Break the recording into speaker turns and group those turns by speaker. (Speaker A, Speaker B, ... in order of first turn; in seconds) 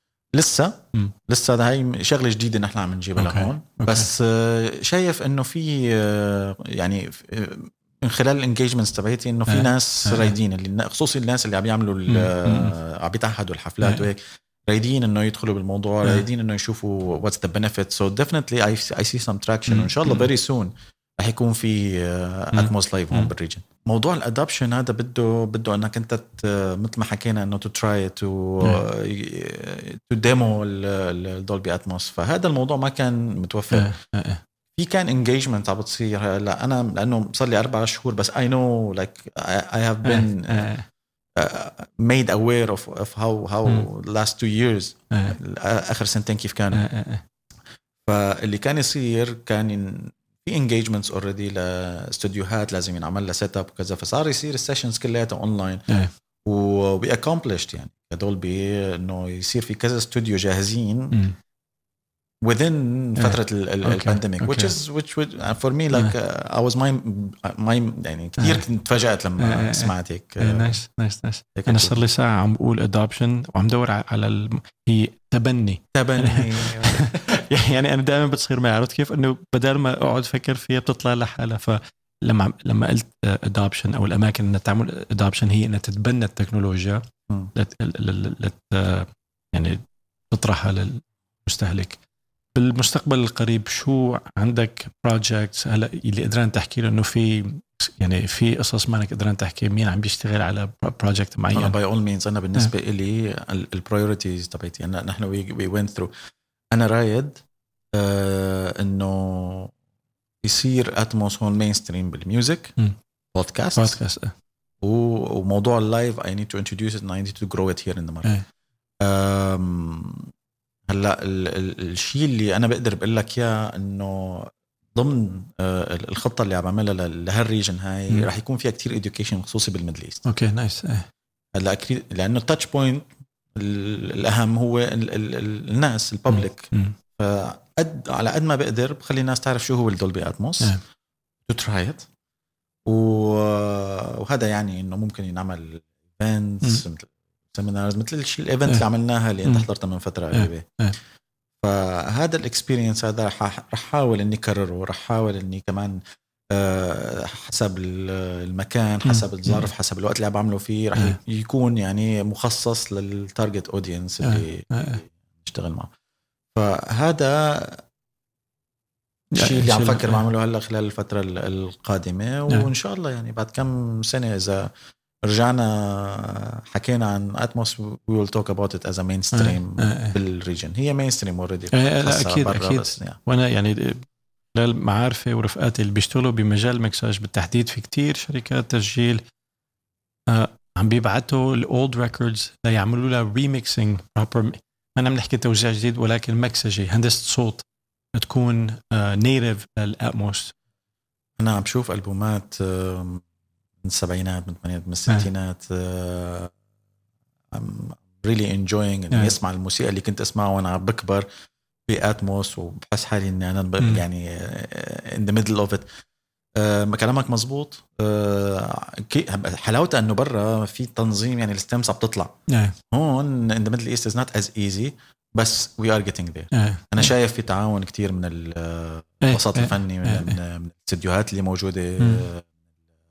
Speaker A: 0.3-34.0, 34.8-40.7, 41.4-46.9, 48.1-55.8, 56.5-61.2, 62.4-70.8, 71.6-72.0, 75.9-77.4, 101.5-106.1, 106.7-107.4, 107.9-109.7, 110.4-112.8, 113.3-114.0, 114.8-118.4, 119.0-120.3, 120.9-130.2, 131.5-140.8, 141.5-142.1, 142.9-150.7, 151.6-156.0, 156.5-165.9, 166.5-167.8, 169.3-174.7, 175.2-183.2, 201.4-203.2, 203.8-206.5, 207.5-211.3, 211.9-215.9, 216.6-222.3, 222.9-232.5
Speaker B: 3.2-4.1, 9.5-10.3, 12.1-12.7, 19.7-20.3, 22.5-23.3, 33.7-34.4, 40.0-40.9, 45.1-45.4, 46.7-47.2, 63.2-64.8, 69.4-87.0, 87.5-92.0, 92.5-101.8, 113.8-114.3, 130.3-131.1, 136.3-136.9, 150.3-150.9, 159.1-159.7, 164.2-165.0, 169.3-170.2, 179.3-180.2, 181.7-189.2, 190.3-200.5, 222.5-222.8, 226.5-227.1, 229.2-230.4, 232.0-232.3